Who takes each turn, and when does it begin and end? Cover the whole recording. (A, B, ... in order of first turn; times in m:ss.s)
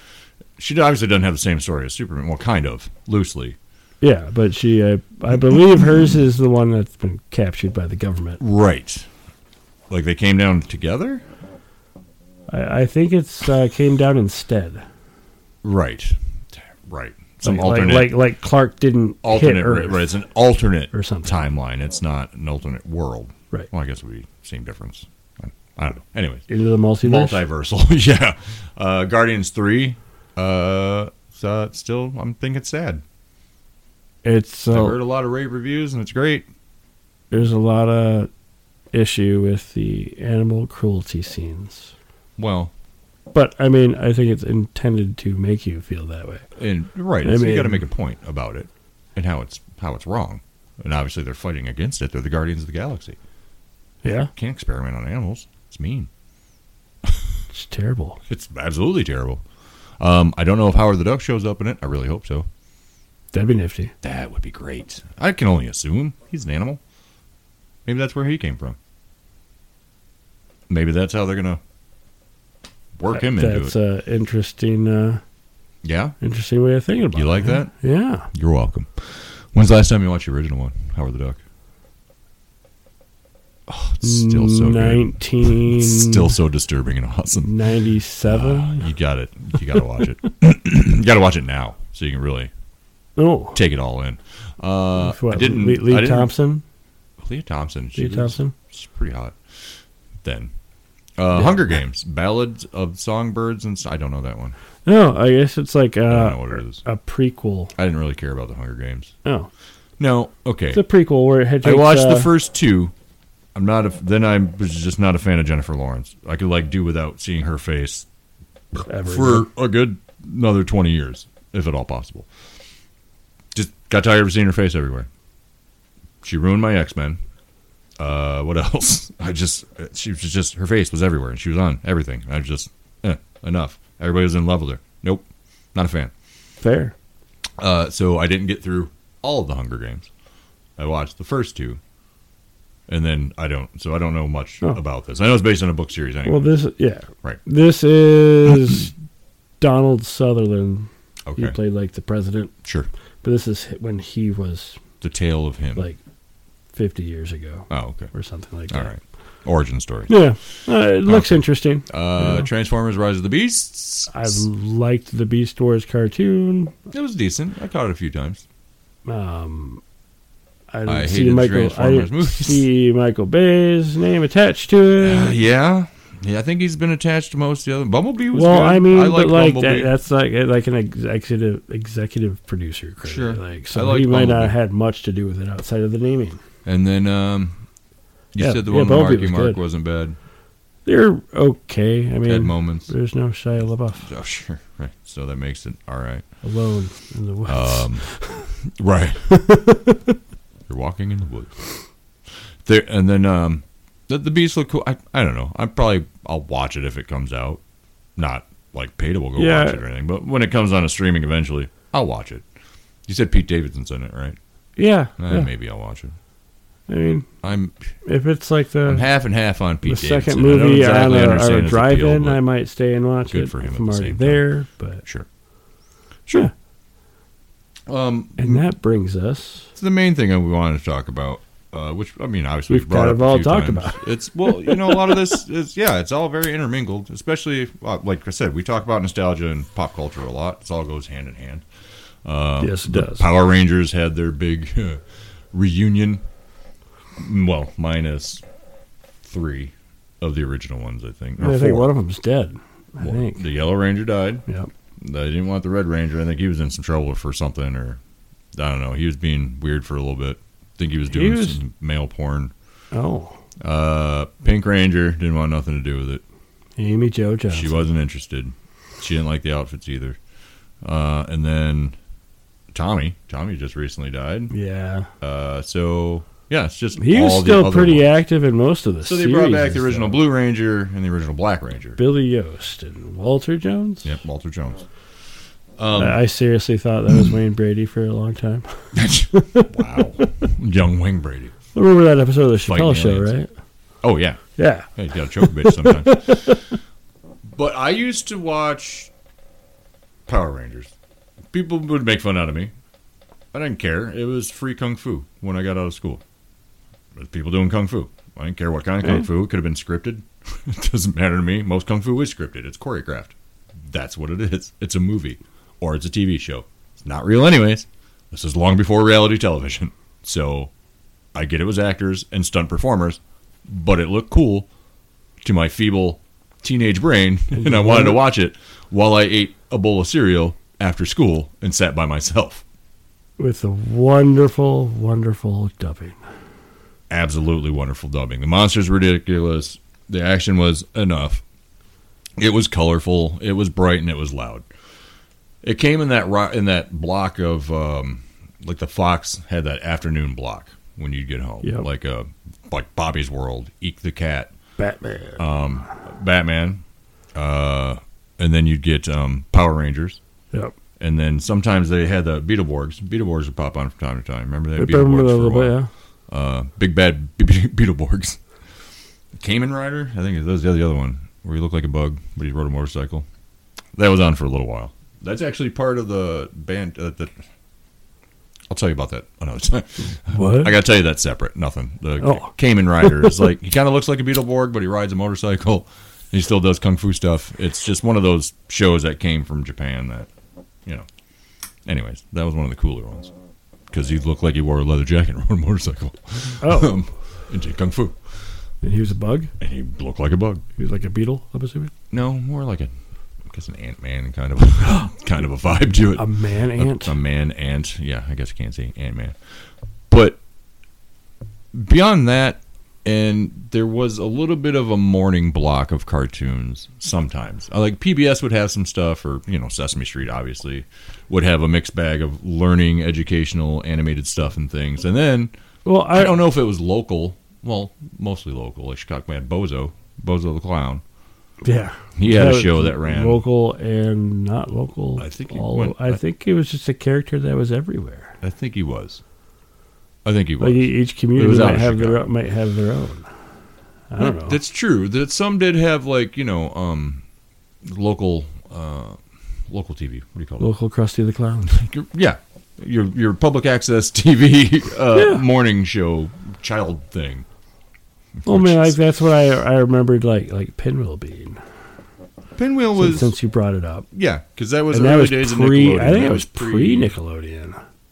0:00.6-0:03.6 A
0:04.0-0:08.4 B
0:08.4-0:09.1 A
0:09.9-0:11.2 A
0:12.5-0:14.8 B
0:15.6-0:18.2 A
0:17.4-0:20.1 B
0:19.2-0:26.4 A
0:20.9-0:21.4 B
0:26.5-0:27.4 B
0:27.0-0:33.0 A
0:34.2-0:35.0 B
0:34.7-0:36.5 A
0:37.3-0:38.3 B
0:38.9-0:41.9 B
0:42.4-0:42.7 A
0:43.3-0:46.4 B
0:46.6-0:53.2 A
0:47.2-0:47.8 B
0:54.0-0:54.3 B
0:54.3-0:56.1 A
0:57.5-0:58.2 B
0:58.3-0:59.4 A
1:00.0-1:02.5 A
1:03.3-1:03.9 B
1:04.0-1:06.8 A
1:07.8-1:08.8 A
1:10.7-1:11.6 A
1:13.0-1:13.7 A
1:13.1-1:15.2 B
1:15.8-1:16.2 A
1:16.2-1:18.3 B
1:17.1-1:17.7 A
1:18.3-1:21.4 A
1:23.7-1:27.5 A
1:24.0-1:26.3 B
1:27.4-1:28.9 B
1:28.2-1:32.5 A
1:33.2-1:33.6 B
1:33.5-1:36.3 A
1:35.0-1:36.6 B
1:37.2-1:39.4 A
1:38.0-1:38.5 B
1:40.2-1:40.5 A
1:41.2-1:44.6 A
1:44.8-1:47.7 B
1:46.1-1:46.8 A
1:47.8-1:49.1 A
1:50.0-1:50.8 A
1:50.7-1:52.3 B
1:51.6-1:52.9 A
1:53.5-1:58.0 A
1:58.7-2:02.3 A
1:58.8-1:59.5 B
2:03.5-2:05.1 A
2:06.2-2:07.2 A
2:08.0-2:16.1 A
2:16.6-2:16.9 B
2:17.6-2:20.1 A
2:20.8-2:21.8 A
2:22.9-2:26.5 A
2:26.2-2:28.9 B
2:29.6-2:32.5 B
2:31.2-2:31.6 A
2:33.2-2:34.8 B
2:35.0-2:35.8 A
2:36.7-2:38.9 B
2:37.7-2:38.1 A
2:38.7-2:40.2 A
2:40.1-2:42.5 B
2:41.0-2:44.4 A
2:44.1-2:46.7 B
2:46.9-2:48.4 A
2:49.0-2:49.8 B
2:50.7-2:55.4 B
2:50.8-2:52.6 A
2:55.0-2:59.9 A
2:58.3-3:06.4 B
3:03.0-3:04.5 A
3:06.6-3:07.6 A
3:08.3-3:10.2 A
3:08.4-3:09.6 B
3:10.8-3:14.1 B
3:12.2-3:12.9 A
3:14.0-3:16.2 A
3:16.4-3:18.5 B
3:17.5-3:18.0 A
3:18.7-3:19.3 A
3:19.3-3:20.0 B
3:20.7-3:21.6 A
3:22.6-3:27.6 A
3:28.2-3:32.4 A
3:29.4-3:29.8 B
3:33.0-3:34.4 A
3:34.8-3:35.5 B
3:35.2-3:36.2 A
3:36.9-3:37.3 B
3:37.4-3:37.8 A
3:38.0-3:39.1 B
3:38.8-3:42.4 A
3:39.8-3:45.0 B
3:43.3-3:44.4 A
3:47.9-3:48.6 A
3:48.4-3:49.7 B
3:49.8-4:01.6 A
3:52.7-3:55.2 B
4:02.2-4:06.2 A
4:02.6-4:03.2 B
4:07.2-4:08.4 A
4:09.2-4:11.9 A
4:11.4-4:13.4 B
4:13.0-4:14.4 A
4:15.0-4:18.0 A
4:18.5-4:22.5 A
4:21.1-4:21.6 B
4:22.9-4:23.4 B
4:23.6-4:26.2 A
4:26.8-4:27.8 B
4:27.5-4:30.2 A
4:30.8-4:32.0 A
4:32.7-4:34.5 A
4:34.5-4:35.1 B
4:35.2-4:38.0 A
4:37.0-4:40.2 B
4:39.0-4:42.0 A
4:42.0-4:44.1 B
4:44.0-4:44.9 A
4:45.8-4:46.2 A
4:46.0-4:50.3 B
4:48.9-4:51.5 A
4:51.7-4:53.5 B
4:52.6-4:53.3 A
4:54.0-4:56.6 A
4:54.6-4:56.8 B
4:57.4-4:59.1 A
5:00.3-5:00.9 A
5:01.5-5:02.7 A
5:03.5-5:06.2 A
5:07.1-5:20.7 A
5:21.3-5:24.7 A
5:25.4-5:32.6 A
5:27.5-5:28.2 B
5:33.4-5:36.2 B
5:37.1-5:41.4 A
5:42.4-5:44.7 A
5:45.6-5:54.5 A
5:54.8-5:55.4 B
5:55.4-5:56.8 A
5:57.3-6:00.2 A
6:01.0-6:05.8 A
6:04.8-6:05.9 B
6:06.3-6:08.4 A
6:09.3-6:13.2 A
6:13.9-6:17.3 A
6:18.7-6:30.3 A
6:20.3-6:20.7 B
6:22.2-6:22.5 B
6:23.0-6:23.3 B
6:31.8-6:33.3 A
6:33.9-6:38.2 A
6:36.6-6:36.9 B
6:38.8-6:39.5 B
6:39.6-6:40.6 A
6:40.8-6:41.9 B
6:42.1-6:42.9 A
6:43.4-6:49.4 A
6:46.2-6:47.1 B
6:50.1-6:50.4 A
6:51.7-7:05.5 A
7:05.8-7:06.3 B
7:06.1-7:11.0 A
7:11.6-7:18.4 B
7:12.2-7:13.4 A
7:15.2-7:16.2 A
7:18.4-7:19.2 A
7:20.2-7:22.2 A
7:20.6-7:23.2 B
7:24.1-7:24.6 B
7:24.2-7:27.2 A
7:27.8-7:30.7 A
7:30.6-7:31.8 B
7:31.7-7:37.4 A
7:35.1-7:35.4 B
7:38.4-7:39.0 A
7:38.4-7:41.6 B
7:42.6-7:43.3 A
7:43.0-7:44.1 B
7:44.1-7:47.1 A
7:44.9-7:47.8 B